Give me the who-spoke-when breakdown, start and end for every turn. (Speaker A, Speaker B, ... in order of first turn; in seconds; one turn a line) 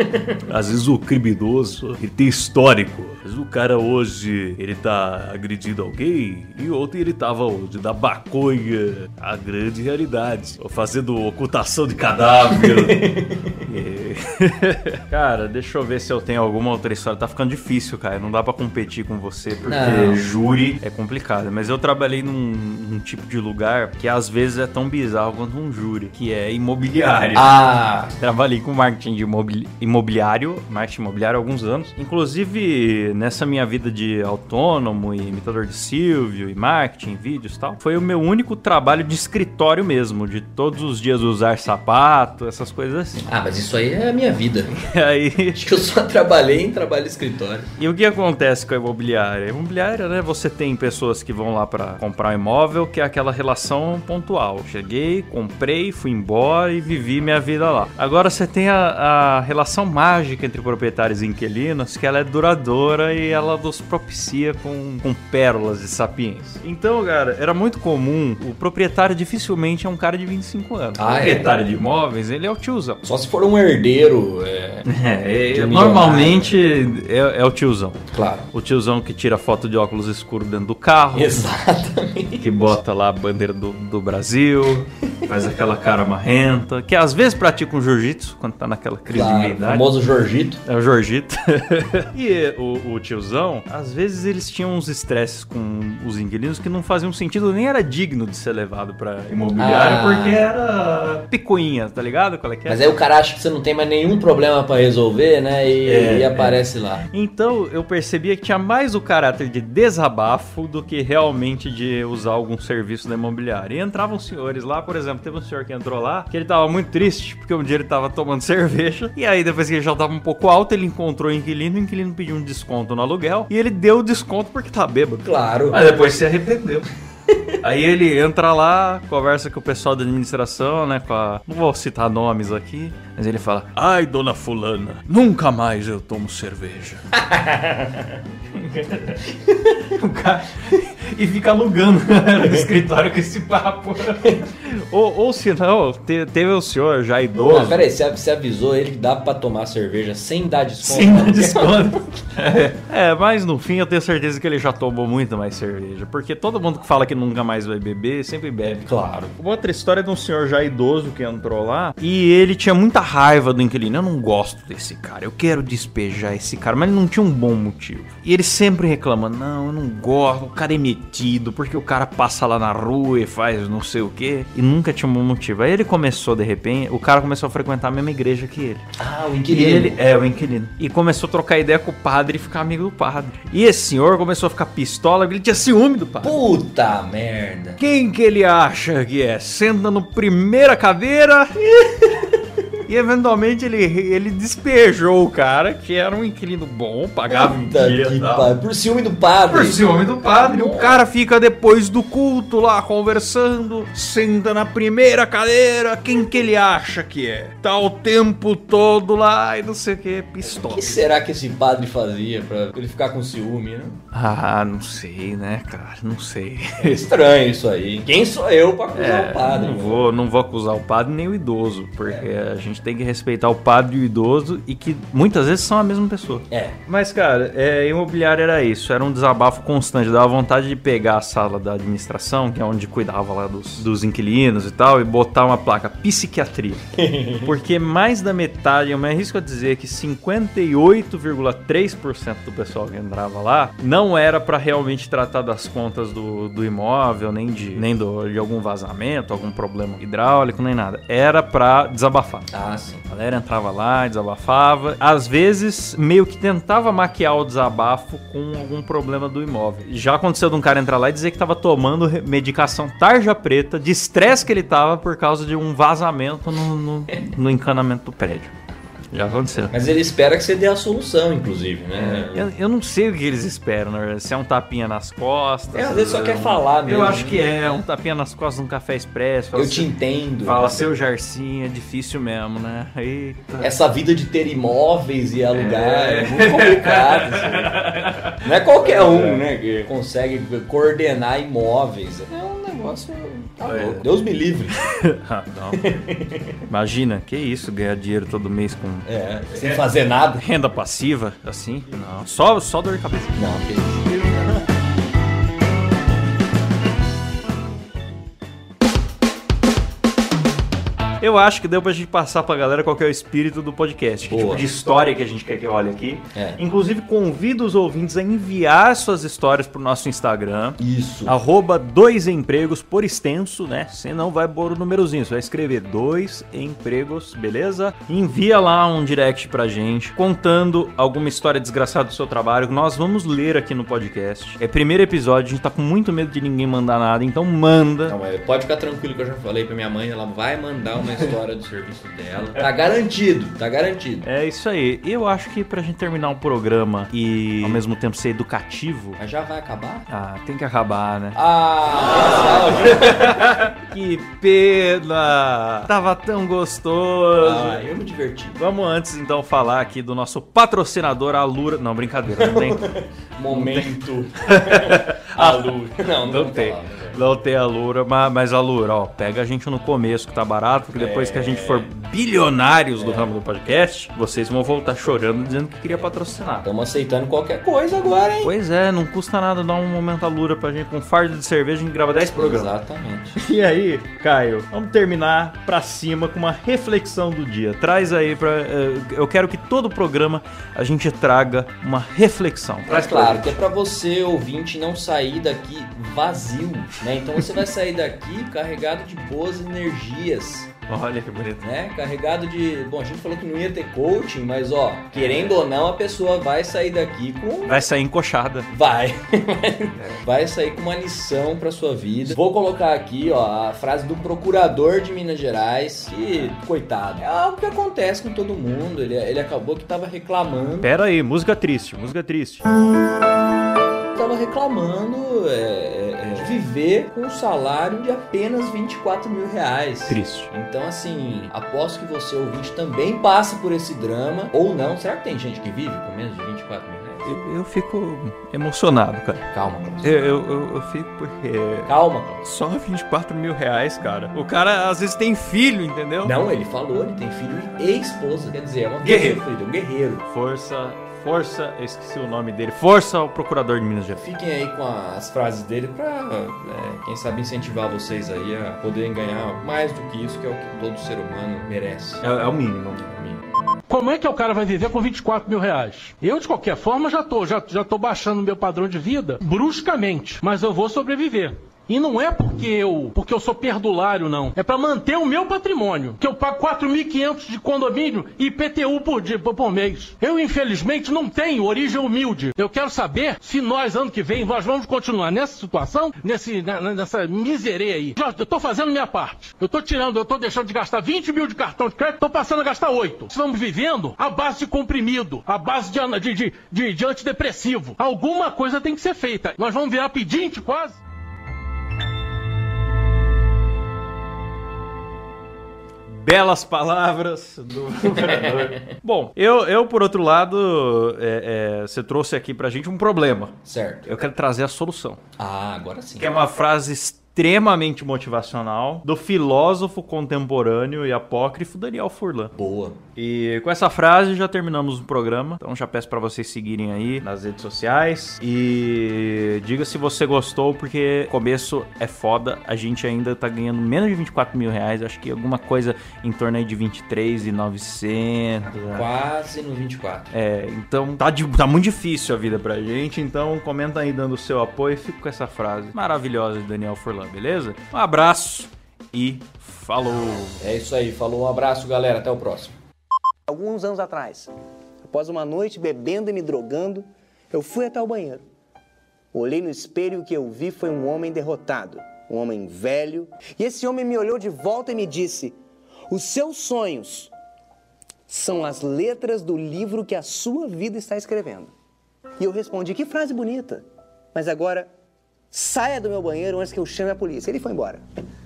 Speaker A: 0.4-27.6
Speaker B: 12.5-13.6
Speaker B: 19.7-20.2
Speaker B: 27.3-28.1
Speaker A: 28.1-43.3
Speaker B: 43.3-44.8
Speaker A: 44.8-45.6
Speaker B: 45.5-47.7
Speaker A: 47.8-73.0
Speaker B: 71.0-71.5
Speaker B: 73.0-74.9
Speaker A: 74.8-81.5
Speaker B: 75.5-76.5
Speaker B: 78.1-78.5
Speaker B: 81.1-82.7
Speaker A: 82.4-89.8
Speaker B: 89.1-90.6
Speaker A: 90.6-102.8
Speaker B: 99.6-100.4
Speaker B: 102.7-107.0
Speaker A: 105.8-106.6
Speaker A: 107.1-126.9
Speaker B: 125.2-125.8
Speaker A: 127.6-137.2
Speaker B: 137.3-137.7
Speaker A: 138.5-139.3
Speaker A: 139.8-147.8
Speaker B: 147.4-151.8
Speaker A: 150.8-178.9
Speaker B: 158.9-159.3
Speaker B: 179.0-180.0
Speaker A: 179.5-186.3
Speaker B: 186.2-187.8
Speaker A: 187.8-191.5
Speaker B: 191.6-192.1
Speaker A: 192.9-198.5
Speaker B: 197.3-199.8
Speaker A: 199.5-211.0
Speaker B: 200.4-200.9
Speaker B: 210.4-214.0
Speaker A: 214.1-217.0
Speaker B: 216.8-220.1
Speaker A: 218.9-236.8
Speaker B: 226.5-226.8
Speaker B: 236.9-237.5
Speaker A: 237.4-252.5
Speaker B: 252.5-253.0
Speaker A: 253.1-268.5
Speaker A: 269.1-269.7
Speaker B: 269.7-272.4
Speaker A: 271.9-279.9
Speaker B: 275.7-277.6
Speaker B: 279.5-280.8
Speaker A: 280.4-283.7
Speaker B: 283.6-287.7
Speaker A: 285.5-289.4
Speaker B: 288.4-294.8
Speaker A: 293.6-294.0
Speaker A: 294.8-296.0
Speaker B: 295.8-296.6
Speaker A: 296.7-299.8
Speaker B: 299.1-300.4
Speaker A: 300.4-303.4
Speaker B: 303.4-304.6
Speaker A: 311.2-338.1
Speaker B: 314.3-314.6
Speaker B: 320.8-321.3
Speaker B: 338.1-344.3
Speaker A: 344.2-349.2
Speaker B: 349.2-350.1
Speaker A: 350.1-351.4
Speaker B: 351.3-353.6
Speaker A: 352.0-357.8
Speaker B: 357.4-358.6
Speaker A: 358.6-362.8
Speaker B: 362.4-367.2
Speaker A: 363.5-376.6
Speaker B: 370.9-371.9
Speaker B: 373.0-373.3
Speaker B: 376.6-378.5
Speaker A: 378.4-382.7
Speaker B: 382.3-383.4
Speaker A: 383.4-393.6
Speaker B: 392.9-400.7
Speaker A: 400.9-401.6
Speaker B: 401.6-407.8
Speaker A: 405.1-405.6
Speaker A: 407.6-408.7
Speaker B: 408.7-420.9
Speaker A: 409.9-410.2
Speaker A: 420.8-422.6
Speaker B: 424.1-437.3
Speaker A: 426.3-426.6
Speaker A: 430.1-430.5
Speaker A: 437.2-439.4
Speaker B: 439.5-440.1
Speaker A: 440.0-441.9
Speaker B: 441.9-442.4
Speaker A: 442.4-446.3
Speaker B: 446.2-450.2
Speaker A: 449.0-449.4
Speaker A: 450.2-454.3
Speaker B: 454.2-462.2
Speaker A: 462.2-463.1
Speaker B: 463.1-463.4
Speaker C: 463.9-501.0
Speaker A: 506.1-515.2
Speaker B: 508.2-508.7
Speaker B: 513.6-514.1
Speaker B: 515.4-516.3
Speaker A: 516.2-522.5
Speaker B: 522.5-523.0
Speaker A: 523.1-539.1
Speaker B: 538.7-540.3
Speaker A: 540.3-550.6
Speaker B: 550.6-552.7
Speaker D: 553.5-554.5
Speaker D: 555.0-558.4
Speaker D: 559.3-565.6
Speaker D: 566.1-567.3
Speaker D: 568.3-571.7
Speaker D: 572.4-574.9
Speaker D: 575.5-578.0